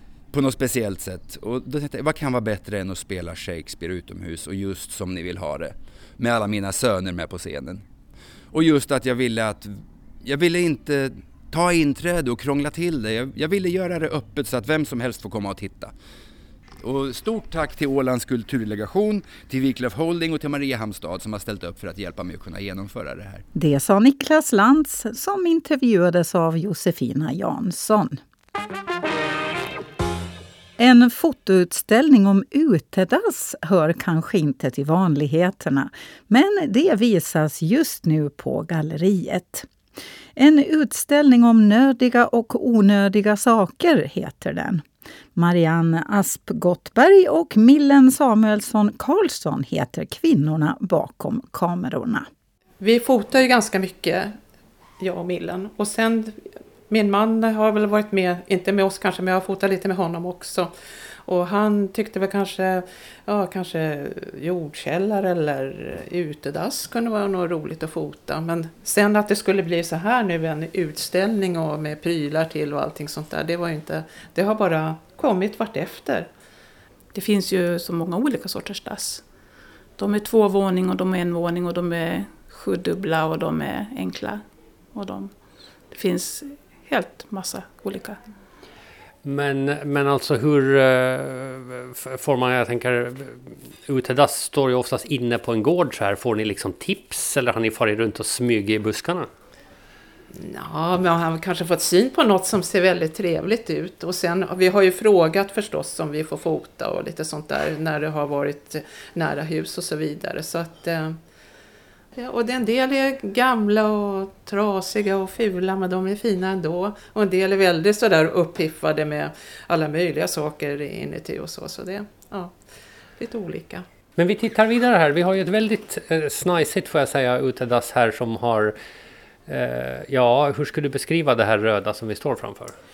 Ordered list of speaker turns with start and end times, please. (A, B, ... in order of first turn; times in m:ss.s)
0:00.3-0:07.8 A
0:08.5-0:15.9 A
0:16.8-0:23.4 A
0:23.5-0:28.2 B
0:30.8-0:39.7 B
0:40.4-0:44.8 B
0:45.3-0:52.3 B
0:52.8-0:54.4 C
0:55.0-1:00.7 C
1:01.2-1:16.3 C
1:17.1-1:19.3 D
1:20.0-1:28.2 D
1:29.2-1:39.3 E
1:40.3-1:51.2 C
1:52.1-2:02.6 C
2:03.2-2:03.8 C
2:04.2-2:08.8 E
2:09.5-2:12.8 E